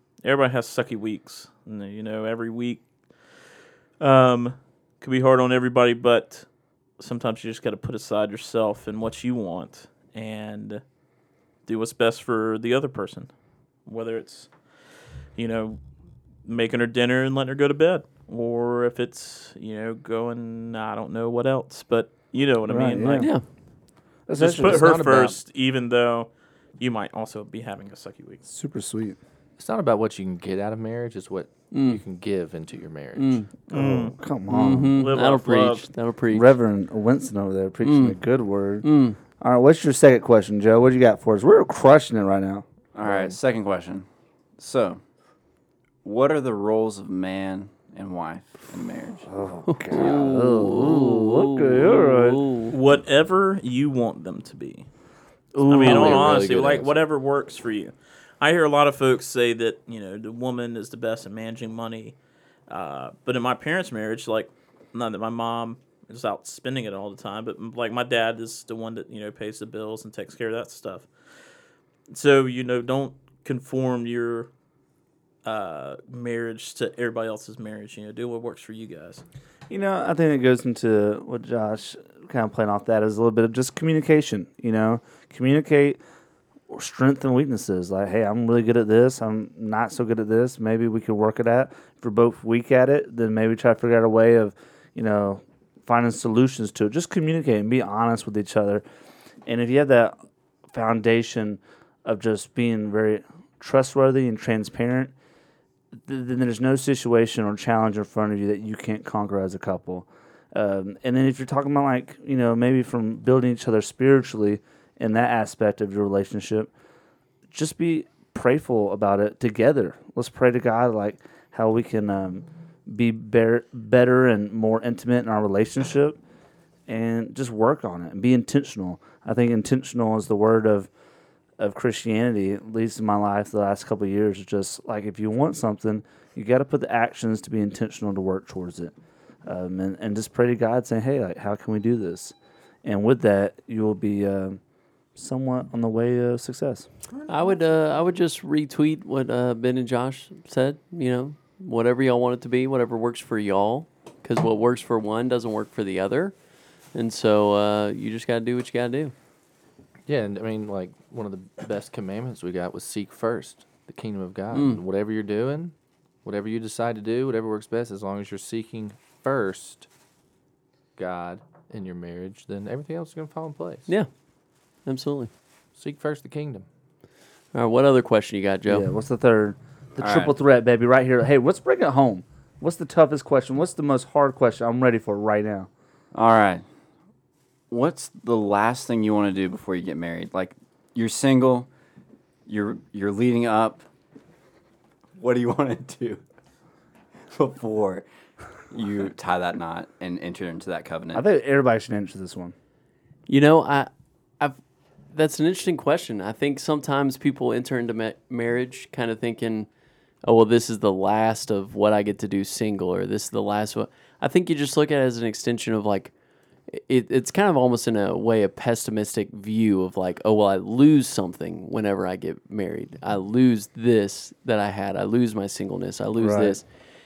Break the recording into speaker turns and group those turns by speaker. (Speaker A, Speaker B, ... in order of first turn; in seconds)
Speaker A: 0.2-2.8, 4.0-6.5, 7.0-10.8, 11.7-13.3, 13.8-14.5, 15.3-15.8, 16.4-23.3, 24.4-28.4, 33.7-34.2, 35.0-35.9, 52.7-54.9, 55.6-62.2, 62.7-71.1, 72.1-74.5, 75.5-79.2, 147.1-147.6
Speaker B: 22.7-23.3, 24.3-25.0, 28.5-29.2, 33.7-35.0, 36.3-43.3, 49.3-52.4, 55.5-56.4, 79.7-86.0, 86.7-98.8, 99.5-100.2, 100.7-105.1, 106.1-116.7, 117.5-126.2, 126.9-130.9, 131.6-138.9, 139.5-144.6, 145.2-146.9, 178.7-185.7, 201.1-202.5, 226.2-226.6
Speaker C: 24.4-25.4, 29.6-33.5, 55.8-57.0, 160.1-169.9, 171.0-173.9, 175.8-176.7
Speaker D: 31.7-32.0, 33.2-33.5, 34.5-36.5, 37.8-38.2, 38.8-39.2, 49.7-52.8, 55.8-56.2, 147.3-156.3, 156.9-159.1, 164.5-164.8, 174.9-175.3, 177.5-178.9, 203.3-204.6, 205.1-209.7, 210.2-216.1, 216.7-226.7
Speaker E: 43.0-44.1, 44.6-45.0, 46.0-49.3, 180.0-180.3, 186.1-186.7, 187.7-191.7, 192.5-193.8, 195.2-196.2, 197.3-198.1, 198.7-201.2